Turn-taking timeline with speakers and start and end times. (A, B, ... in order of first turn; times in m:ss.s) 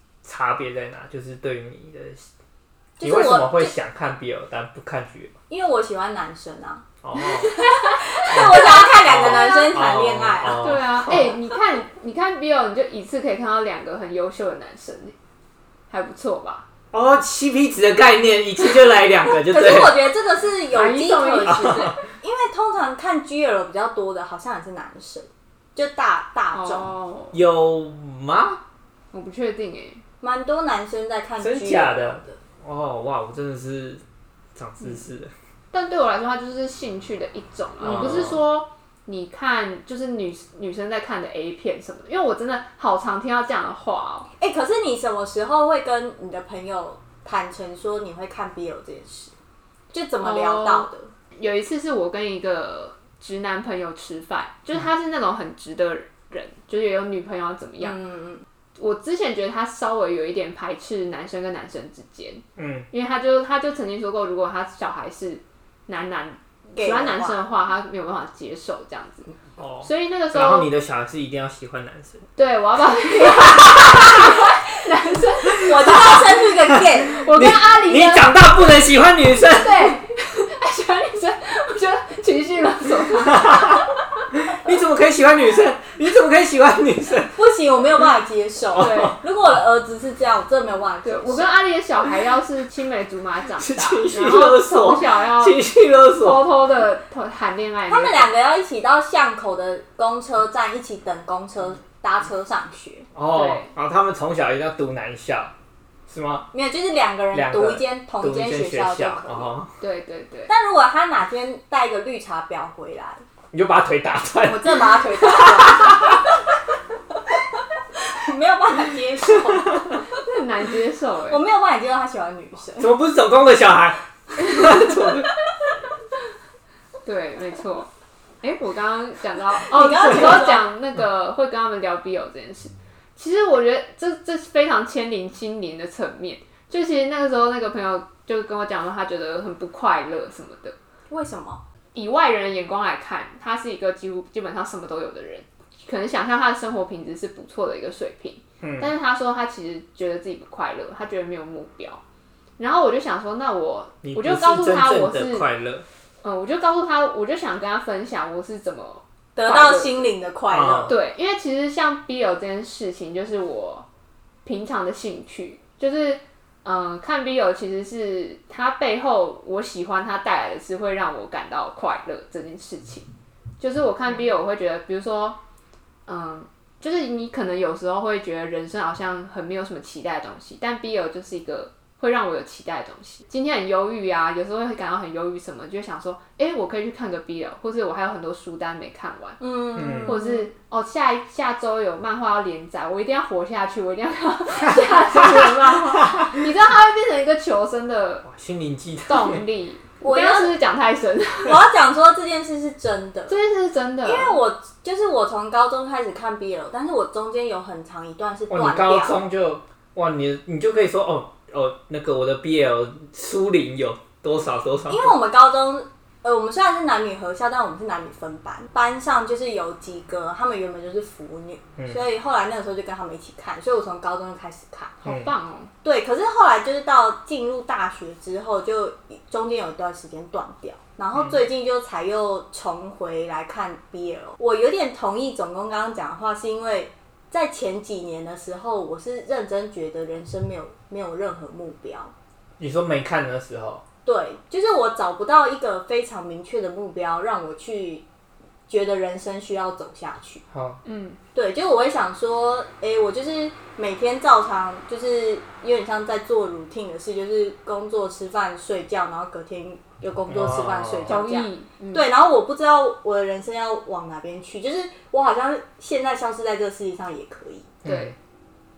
0:00.2-0:02.3 A
0:03.0-0:03.8 B
0:03.0-0:05.3 A
0:05.5-0:06.8 B
0:07.0-0:07.6 A
0:07.2-0:09.8 C
0:07.8-0:11.2 B
0:08.3-0:11.4 A
0:10.6-0:15.2 C
0:15.9-0:16.6 C
0:16.9-0:20.1 A
0:19.4-0:26.9 B
0:20.7-0:21.9 C
0:21.5-0:22.0 A
0:26.5-0:27.4 C
0:27.3-0:28.6 A
0:29.1-0:30.0 C
0:30.2-0:32.4 B
0:31.4-0:34.0 A
0:34.6-0:35.3 A
0:35.7-0:44.3 C
0:44.4-0:49.3 B
0:49.9-0:51.1 B
0:50.2-0:58.0 C
0:57.8-0:58.4 B
0:58.8-1:09.3 C
1:02.6-1:02.9 A
1:06.8-1:07.4 B
1:09.6-1:12.2 A
1:09.8-1:10.7 C
1:12.4-1:16.3 C
1:15.6-1:17.2 B
1:17.1-1:18.7 C
1:17.3-1:20.0 A
1:19.4-1:24.0 C
1:24.4-1:27.4 A
1:27.4-1:31.5 B
1:28.8-1:29.2 A
1:28.8-1:29.2 C
1:31.0-1:35.6 C
1:33.6-1:36.5 A
1:36.2-1:38.3 C
1:37.9-1:43.1 B
1:43.2-1:45.5 A
1:43.3-1:43.7 C
1:46.1-1:46.5 A
1:46.5-1:49.6 B
1:47.3-1:49.7 A
1:49.8-1:50.5 C
1:50.5-1:53.2 B
1:53.5-1:55.7 A
1:54.4-1:56.3 B
1:58.1-2:00.1 B
2:00.1-2:01.4 C
2:01.3-2:02.9 B
2:02.8-2:05.3 A
2:07.0-2:07.9 C
2:08.4-2:20.8 C
2:09.7-2:10.7 B
2:21.1-2:21.6 B
2:22.0-2:32.0 C
2:28.6-2:28.9 A
2:32.6-2:35.5 C
2:34.0-2:35.8 A
2:36.2-2:40.1 C
2:39.4-2:40.9 B
2:40.5-2:41.0 A
2:40.9-2:43.9 C
2:44.4-2:55.4 C
2:56.1-3:18.3 C
3:09.4-3:10.5 B
3:09.8-3:10.2 A
3:18.3-3:19.4 A
3:19.1-3:21.6 C
3:20.0-3:20.6 B
3:21.4-3:23.4 B
3:23.3-3:24.4 C
3:24.0-3:29.2 B
3:28.5-3:35.1 A
3:34.9-3:45.0 B
3:45.0-3:45.7 C
3:45.8-4:02.1 B
4:02.6-4:03.8 A
4:04.0-4:08.0 B
4:08.7-4:10.4 B
4:10.5-4:10.8 A
4:10.8-4:11.2 C
4:11.3-4:27.7 B
4:20.3-4:21.2 A
4:21.1-4:22.1 C
4:27.8-4:28.1 A
4:27.8-4:28.2 C